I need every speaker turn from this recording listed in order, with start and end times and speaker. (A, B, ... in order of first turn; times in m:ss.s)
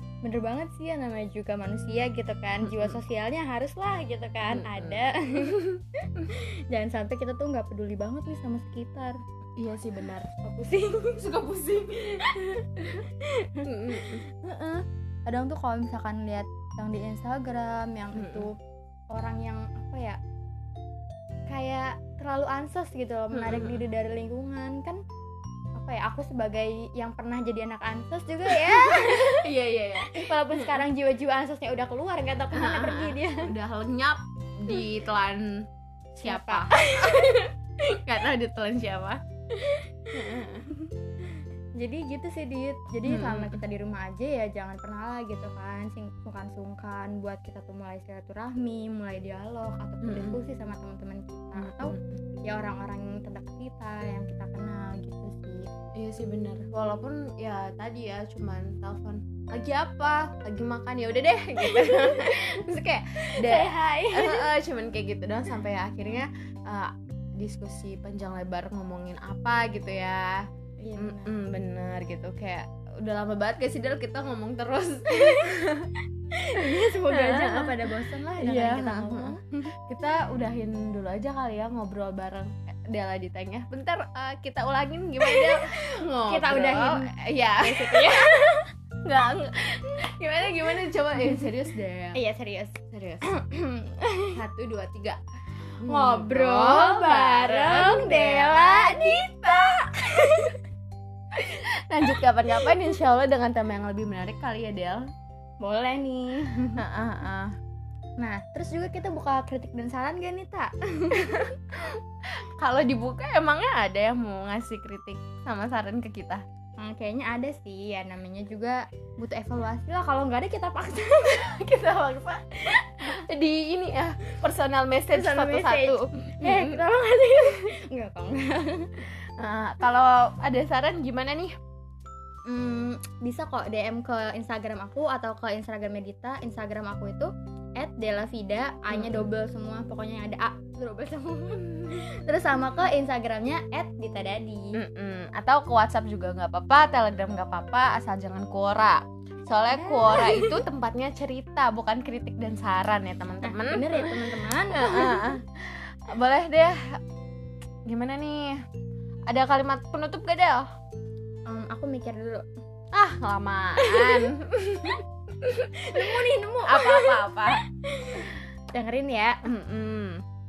0:00.2-0:09.2 A
0:02.6-0:03.0 B
0:04.5-0:05.8 B
0:09.6-0:10.3 B
0:10.3-0:18.5 A
0:13.6-0:14.2 B
0:18.1-0:18.5 B
0:19.1-0:20.2 A
0:21.5-0:25.0 A
0:23.3-0:23.8 B
0:25.8-0:29.4 A
0:28.5-0:30.8 B
0:30.0-0:33.5 A
0:32.5-0:35.6 B
0:36.2-0:37.4 A
0:36.2-0:39.2 B
0:39.6-0:39.9 A
0:40.1-0:40.7 B
0:41.8-0:55.6 A
0:43.1-0:43.6 B
0:50.0-0:50.4 B
0:51.6-0:52.2 B
0:56.0-1:10.5 B
1:01.6-1:02.6 A
1:03.2-1:04.5 A
1:10.8-1:11.4 A
1:11.0-1:15.9 B
1:15.1-1:15.5 A
1:16.4-1:19.7 A
1:16.6-1:19.4 B
1:19.9-1:32.2 B
1:25.2-1:28.6 A
1:30.7-1:31.5 A
1:32.1-1:34.4 A
1:32.9-1:33.2 B
1:34.3-1:35.2 B
1:35.8-1:40.3 B
1:35.9-1:40.6 A
1:41.4-1:45.1 B
1:45.6-1:46.8 A
1:46.8-1:47.5 B
1:48.2-1:51.5 A
1:51.1-1:52.0 B
1:52.6-1:56.4 B
1:56.8-2:03.2 A
2:01.6-2:02.4 B
2:03.0-2:06.8 B
2:05.1-2:09.0 A
2:09.4-2:11.6 B
2:12.5-2:24.7 A
2:18.9-2:19.3 B
2:24.8-2:36.8 B
2:29.7-2:30.6 A
2:33.4-2:35.3 A
2:37.9-2:38.6 B
2:39.3-2:40.7 B
2:41.5-2:42.5 A
2:42.9-2:47.6 B
2:43.8-2:44.3 A
2:45.9-2:49.5 A
2:49.4-2:50.2 B